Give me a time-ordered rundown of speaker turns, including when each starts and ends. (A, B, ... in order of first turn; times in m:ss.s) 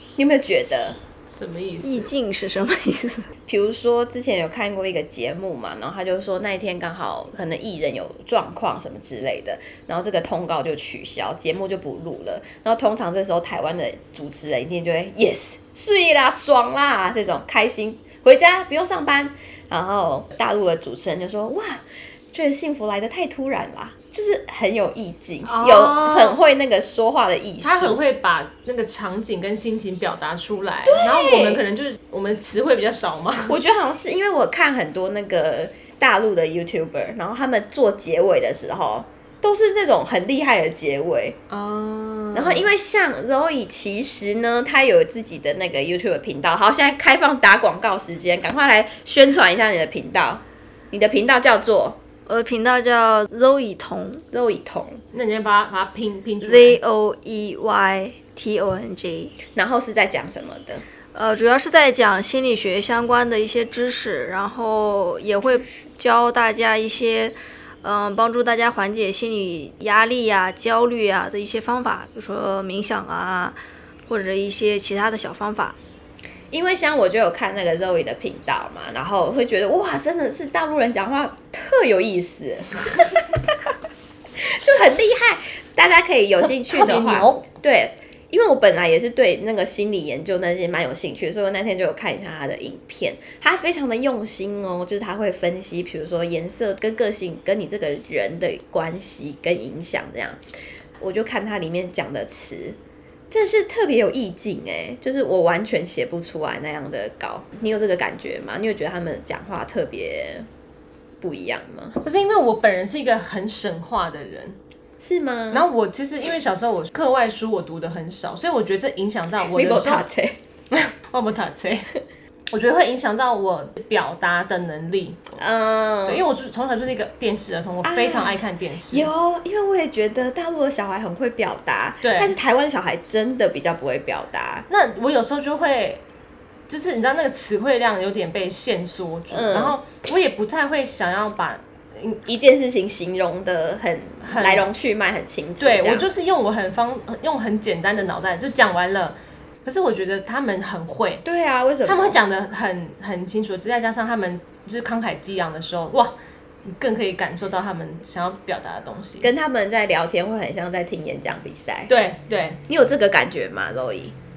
0:00.2-0:01.0 A
0:01.3-0:02.1 B
0:01.8-0:03.3 C
0:03.5-0:28.0 A
0:25.5-0:26.3 B
0:27.6-0:33.6 B
0:30.8-0:31.6 A
0:33.5-0:41.4 A
0:41.5-0:42.7 B
0:42.3-0:52.0 A
0:52.3-0:54.2 C
0:54.3-0:55.0 A
0:55.1-0:56.8 B
0:56.4-0:59.4 C
0:59.5-1:00.8 A
1:01.1-1:15.8 C
1:16.5-1:23.2 A
1:24.4-1:40.4 A
1:26.4-1:27.4 B
1:41.0-1:42.8 A
1:43.3-1:50.5 A
1:51.2-1:52.0 A
1:52.0-1:54.6 B
1:55.0-1:55.7 A
1:55.5-2:00.0 B
1:59.5-2:00.4 A
2:00.7-2:01.9 B
2:02.5-2:05.3 B
2:05.3-2:06.2 A
2:06.1-2:09.1 B
2:07.8-2:14.7 A
2:12.0-2:12.3 B
2:14.7-2:16.0 B
2:16.7-2:22.2 B
2:19.3-2:19.8 A
2:22.3-2:26.1 A
2:24.2-2:24.7 B
2:25.6-2:31.2 B
2:31.2-2:32.2 A
2:31.8-2:39.3 B
2:39.2-2:41.9 A
2:41.9-2:42.6 B
2:42.7-2:44.2 A